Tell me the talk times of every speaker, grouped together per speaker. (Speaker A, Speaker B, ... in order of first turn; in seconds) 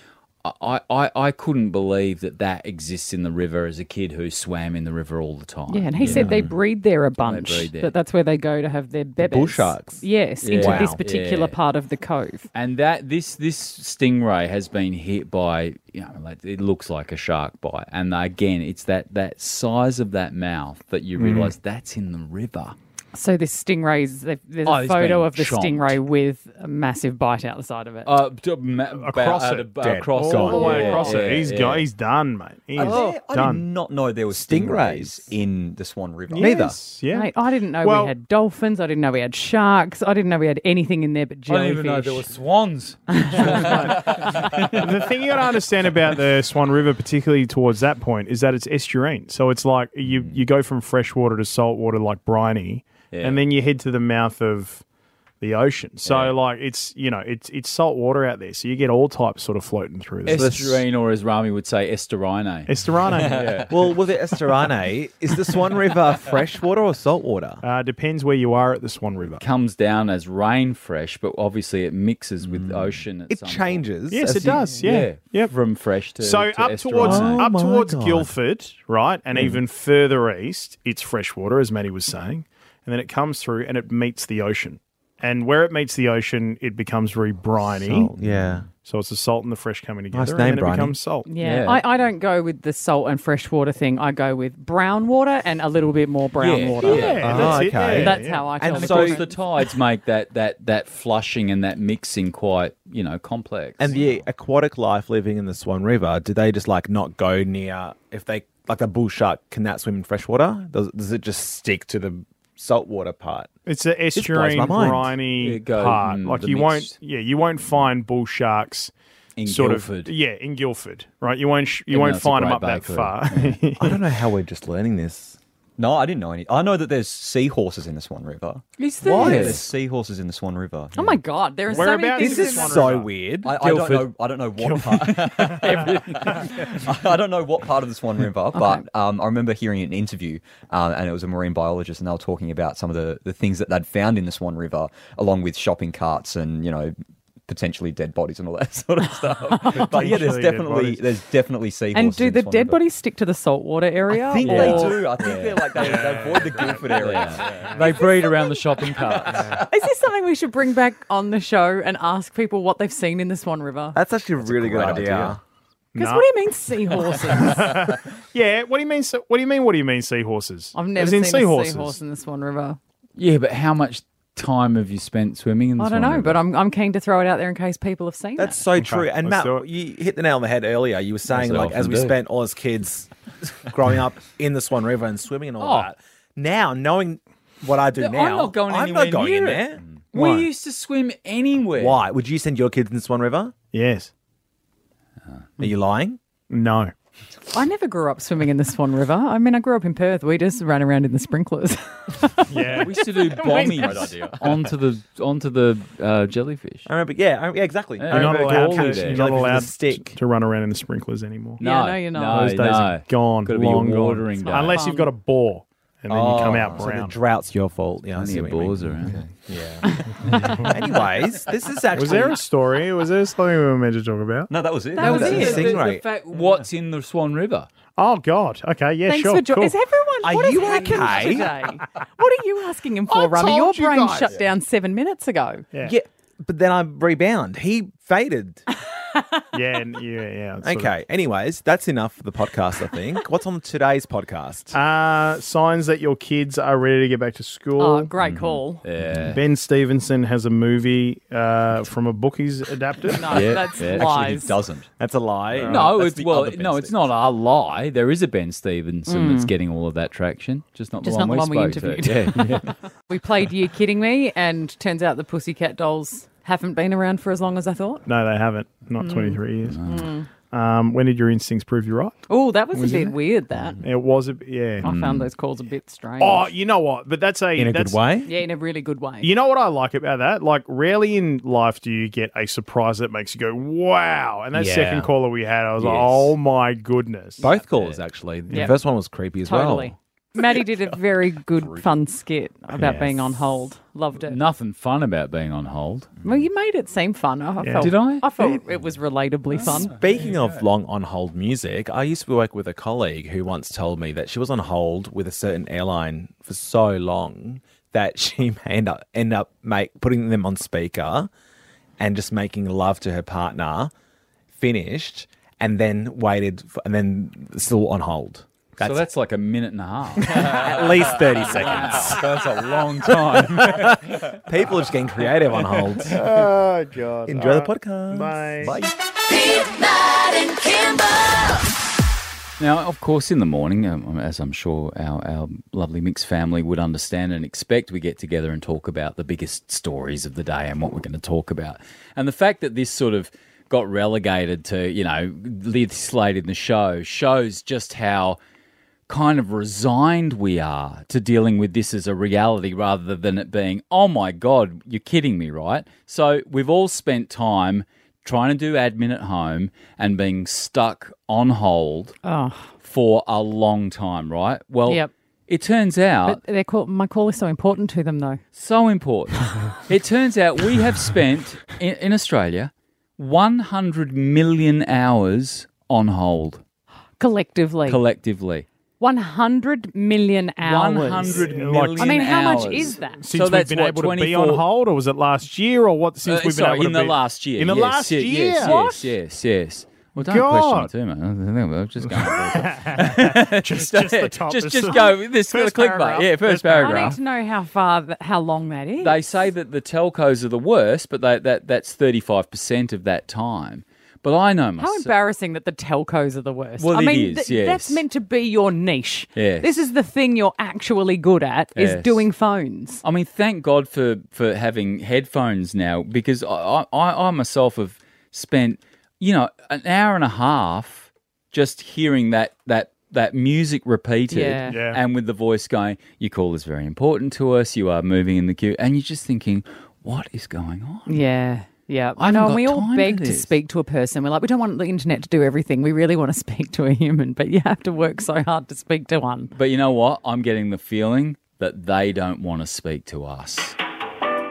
Speaker A: 0.4-6.5, 7.2-7.9, 10.4-11.6, 12.5-22.8, 24.6-26.0, 28.1-31.9, 41.5-45.0, 53.1-53.4, 56.0-56.4, 60.3-63.7, 69.4-77.5, 91.4-91.8, 96.4-104.2, 115.4-116.9, 119.4-120.1, 121.9-123.6, 128.8-129.7, 133.6-134.1, 135.4-136.6, 155.2-156.2, 156.9-159.5, 173.2-176.4, 181.3-182.1, 185.6-185.9, 187.9-192.0, 202.8-206.9, 208.0-209.6, 211.6-214.9, 218.2-219.2, 225.0-227.7, 248.8-249.4, 253.3-254.5, 255.6-262.7, 269.6-270.1, 274.8-275.3, 285.8-286.3, 294.2-296.2, 297.8-298.2, 299.6-300.6, 318.8-324.4, 332.6-348.4, 349.1-362.2, 362.8-366.4, 368.6-376.6, 377.9-378.7, 380.6-384.6, 386.2-397.2, 399.0-405.1, 406.8-408.0, 409.4-409.8, 411.8-412.3, 413.0-431.2, 432.2-433.5, 439.6-443.8
Speaker B: 5.7-12.5, 23.1-28.1, 30.7-31.2, 32.8-33.1, 37.1-42.3, 43.1-43.9, 91.2-99.4, 131.0-132.7, 151.9-154.9, 159.6-164.0, 166.0-167.7, 170.7-172.8, 175.8-178.6, 197.5-204.2, 211.6-212.6, 214.4-215.1, 225.0-225.7, 229.1-235.7, 239.1-239.4, 247.8-248.8, 253.1-254.6, 259.1-259.5, 261.0-268.1, 269.0-270.3, 272.3-273.8, 274.8-276.5, 278.2-279.3, 289.4-294.4, 296.2-299.9, 362.2-362.7, 366.3-368.4, 377.2-378.0, 379.0-383.2, 388.6-389.0, 396.7-399.2, 404.8-413.0, 424.3-424.8, 431.1-439.5
Speaker C: 9.2-10.1, 10.6-11.0, 29.8-30.9, 34.3-35.3, 36.4-36.8, 63.7-67.6, 73.3-75.1, 77.0-78.3, 87.7-88.7, 90.1-91.0, 97.2-99.2, 103.8-113.5, 114.2-115.2, 123.8-125.4, 129.0-129.7, 132.2-133.6, 154.3-154.9, 163.9-165.4, 178.4-183.1, 183.6-190.5, 191.8-193.6, 195.6-196.2, 206.9-210.2, 216.1-222.4, 225.0-226.0, 230.2-231.5, 235.8-238.6, 240.6-244.8, 255.0-255.9, 277.6-278.3, 284.5-285.1, 287.4-290.0, 292.7-293.4, 299.7-311.3, 312.0-313.9, 314.6-319.0, 320.2-322.2, 323.3-326.2, 327.3-328.8
Speaker D: 21.2-21.6, 28.9-33.6, 36.3-38.1, 43.4-54.8, 55.4-60.8, 62.7-63.6, 67.6-69.4, 74.1-75.6, 76.2-88.1, 88.8-91.3, 96.8-98.6, 113.7-118.9, 119.5-124.0, 131.7-133.1, 134.6-136.5, 149.7-151.0, 154.4-155.0, 155.7-157.5, 159.3-159.6, 165.9-166.3, 167.0-172.0, 178.8-179.7, 190.1-190.4, 193.7-194.1, 196.5-196.9, 202.5-203.0, 208.1-211.6, 212.3-217.2, 220.3-220.7, 221.9-224.5, 228.0-229.8, 230.9-231.2, 233.1-234.3, 239.5-240.9, 244.7-248.1, 249.2-253.4, 268.1-269.9, 270.5-272.2, 272.7-273.2, 273.8-274.9, 276.2-278.0, 279.2-287.5, 297.6-297.9, 326.1-328.8, 381.3-388.8, 390.2-390.9, 392.0-397.2, 424.7-425.0
Speaker E: 32.7-36.7, 63.1-63.6, 72.5-73.0, 125.8-131.2, 133.4-146.9, 147.5-152.8, 154.3-158.2, 159.0-159.7, 164.4-165.4, 203.8-204.7, 208.2-208.7, 216.3-216.9, 224.5-225.7, 226.3-226.6, 248.2-248.6, 253.6-254.9, 255.5-257.1, 328.6-328.9
Speaker F: 329.2-331.7